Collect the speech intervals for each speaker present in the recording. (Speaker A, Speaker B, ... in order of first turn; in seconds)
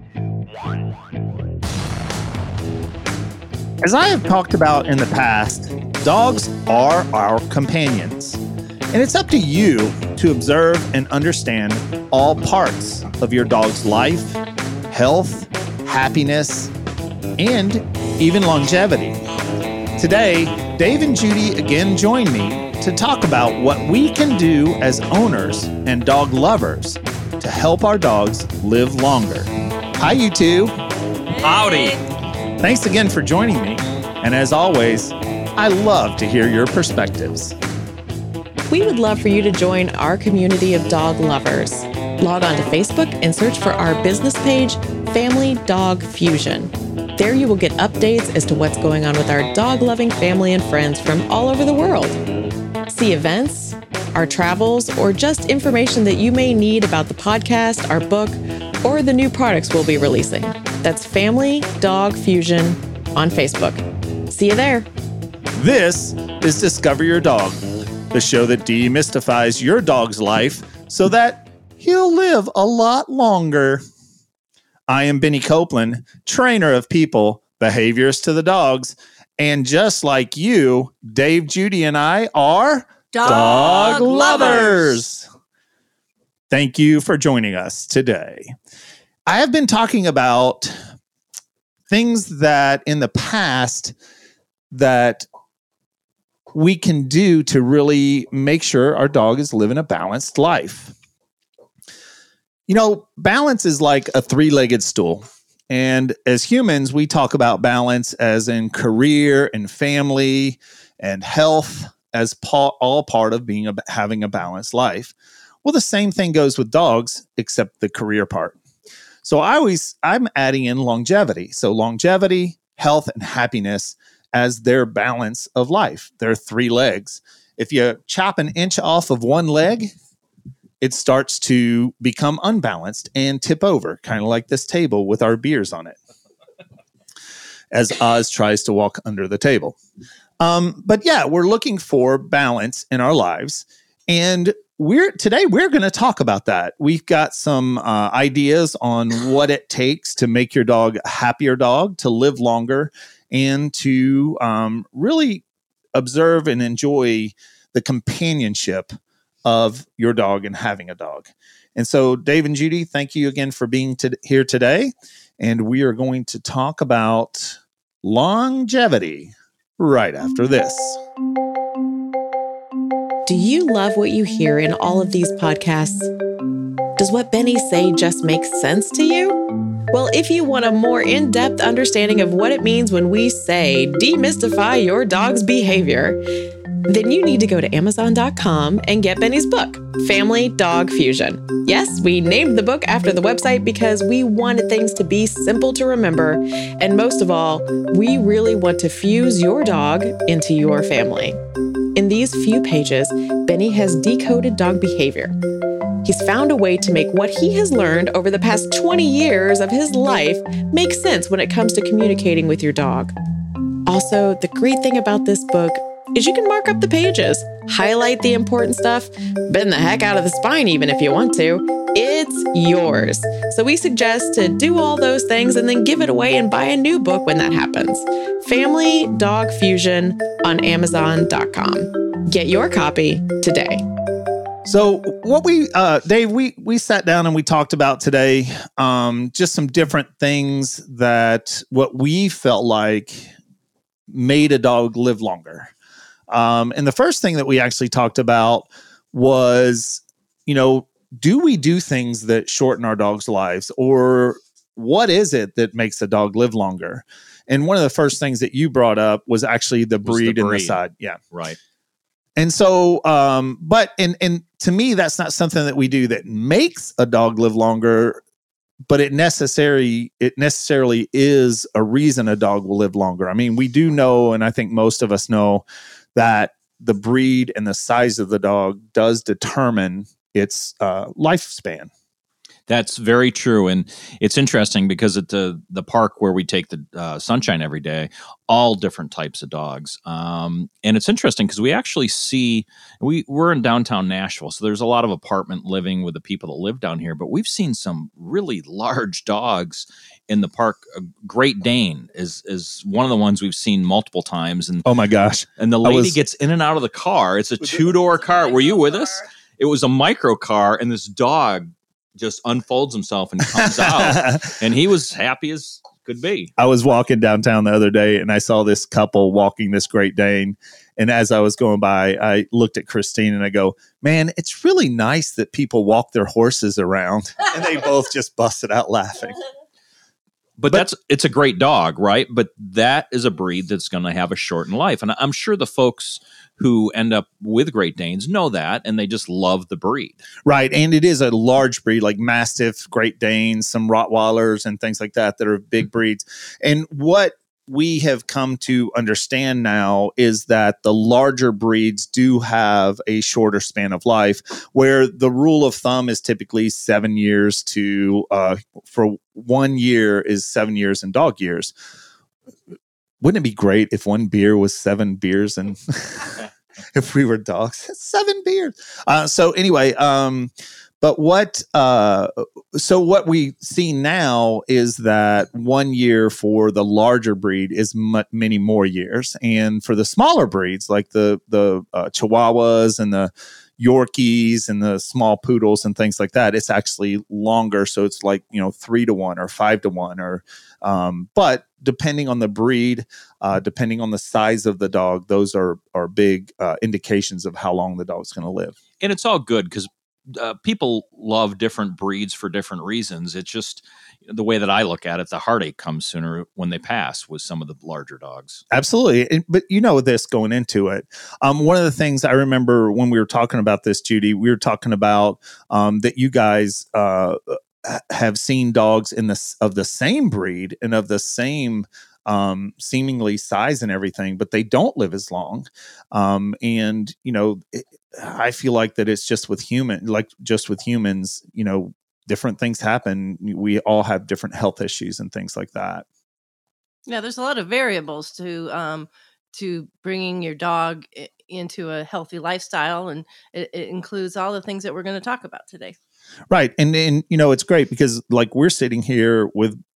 Speaker A: 3.8-8.4, 8.9-16.7, 17.4-19.2, 20.0-30.7, 31.5-32.0, 32.6-37.5, 65.5-73.8, 74.9-85.2, 86.5-88.5, 89.3-90.8, 91.9-93.9, 94.7-95.2, 96.5-100.9, 102.7-118.6, 119.2-129.9, 130.8-136.0, 137.7-139.7, 140.4-158.9, 159.4-171.0, 234.6-243.3, 244.1-245.7, 246.3-261.2, 262.4-268.2, 268.9-281.9, 304.8-306.2, 313.5-314.5, 316.6-329.4, 340.4-361.7, 363.2-398.8, 408.7-436.1, 446.5-449.8
Speaker B: 31.3-32.0, 83.1-85.0, 437.1-445.9
Speaker C: 38.7-52.2, 52.9-64.9, 173.2-176.1, 177.0-179.4, 179.9-186.2, 186.9-201.4, 201.9-205.3, 206.0-213.1, 213.9-233.8
Speaker D: 260.0-260.8, 282.7-304.9, 305.6-316.5, 330.6-340.2, 399.0-408.6